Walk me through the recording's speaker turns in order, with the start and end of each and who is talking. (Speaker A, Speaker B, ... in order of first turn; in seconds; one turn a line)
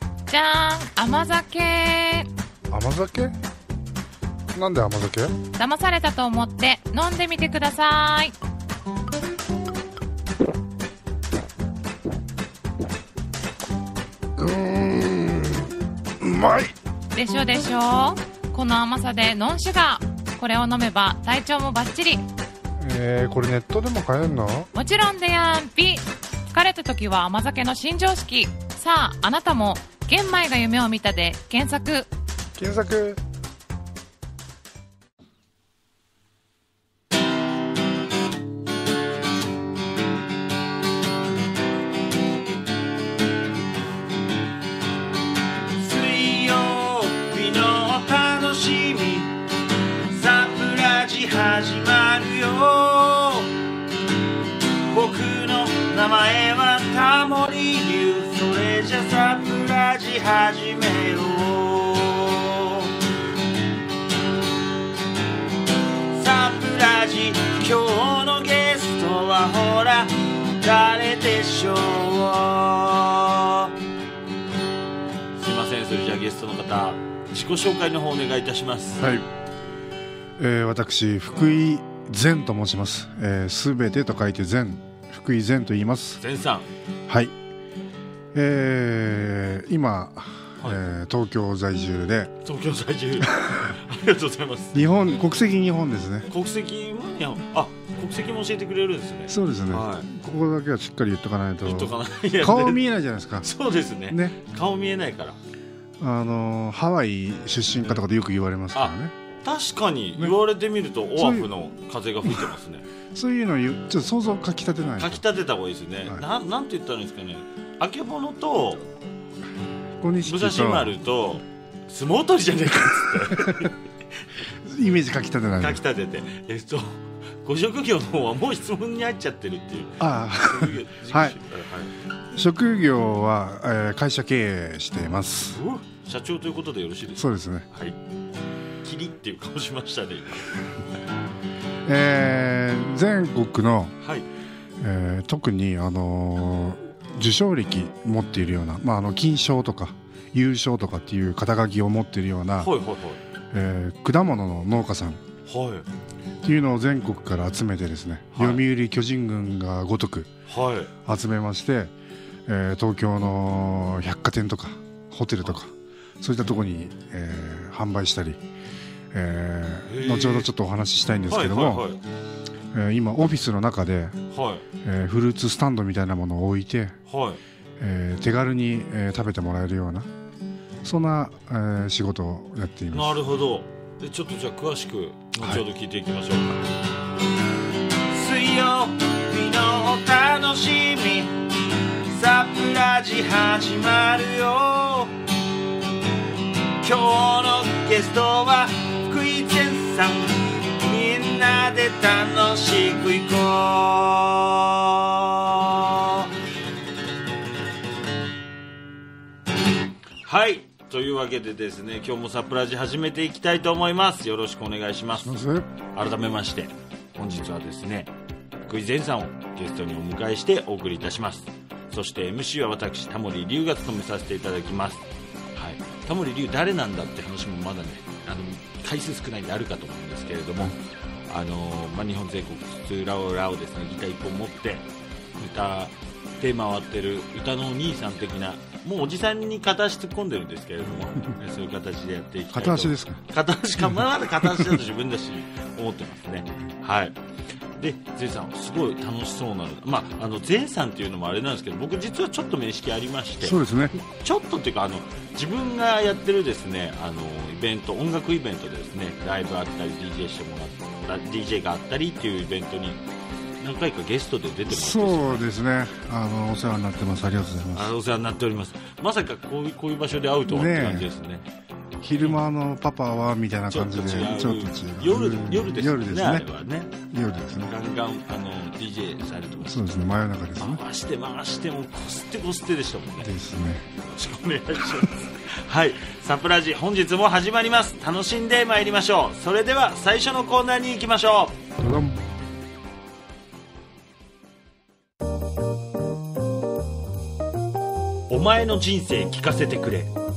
Speaker A: 0.3-2.3
Speaker B: 2.7-3.4
Speaker B: 4.5-5.4
Speaker A: 5.6-8.3
Speaker B: 14.4-16.8
Speaker A: 17.1-22.2
Speaker B: 22.8-24.7
Speaker A: 24.7-32.1
Speaker B: 32.6-33.2
Speaker C: 45.8-49.4
Speaker C: 50.1-53.5
Speaker C: 54.9-62.9
Speaker C: 66.1-73.7
Speaker C: 75.4-79.1
Speaker B: 79.0-79.3
Speaker B: 80.4-86.2
Speaker C: 86.2-86.7
Speaker B: 87.1-87.3
Speaker B: 88.3-92.3
Speaker C: 92.4-94.9
Speaker B: 93.3-93.7
Speaker B: 94.7-96.3
Speaker C: 96.3-100.1
Speaker B: 99.3-103.5
Speaker C: 101.7-102.8
Speaker C: 103.4-105.4
Speaker B: 104.1-104.4
Speaker B: 106.0-109.1
Speaker C: 108.8-112.9
Speaker B: 111.2-111.5
Speaker B: 112.2-112.5
Speaker B: 113.1-115.2
Speaker C: 115.0-118.9
Speaker B: 120.0-121.0
Speaker C: 120.2-123.8
Speaker B: 123.4-123.7
Speaker B: 124.6-125.8
Speaker C: 125.6-131.9
Speaker B: 130.0-131.4
Speaker B: 132.3-135.6
Speaker C: 135.5-138.0
Speaker B: 137.2-137.7
Speaker C: 138.8-140.8
Speaker B: 141.8-144.0
Speaker B: 144.8-152.7
Speaker C: 152.6-153.2
Speaker B: 153.5-155.2
Speaker C: 155.5-155.9
Speaker B: 156.4-160.3
Speaker C: 158.3-158.6
Speaker C: 160.5-160.9
Speaker B: 161.1-161.9
Speaker B: 162.5-168.4
Speaker B: 169.1-171.8
Speaker C: 169.8-170.5
Speaker C: 171.3-172.0
Speaker B: 172.7-174.2
Speaker C: 174.3-174.6
Speaker B: 174.8-177.0
Speaker C: 177.1-177.4
Speaker B: 177.8-180.1
Speaker B: 180.8-183.2
Speaker C: 182.9-186.7
Speaker C: 188.1-191.4
Speaker C: 192.1-195.2
Speaker C: 196.8-206.3
Speaker C: 210.2-215.4
Speaker B: 215.1-215.7
Speaker C: 215.9-218.1
Speaker C: 218.6-247.2
Speaker B: 242.5-243.2
Speaker B: 243.8-244.8
Speaker C: 247.8-263.0
Speaker B: 253.4-254.0
Speaker C: 263.6-265.5
Speaker B: 264.7-267.9
Speaker C: 267.7-271.4
Speaker B: 270.5-271.1
Speaker B: 272.0-276.5
Speaker C: 273.7-276.9
Speaker B: 277.1-277.7
Speaker C: 277.6-280.0
Speaker B: 279.6-280.8
Speaker C: 280.6-283.3
Speaker B: 283.2-283.9
Speaker C: 284.0-291.6
Speaker B: 291.8-292.2
Speaker C: 298.3-300.1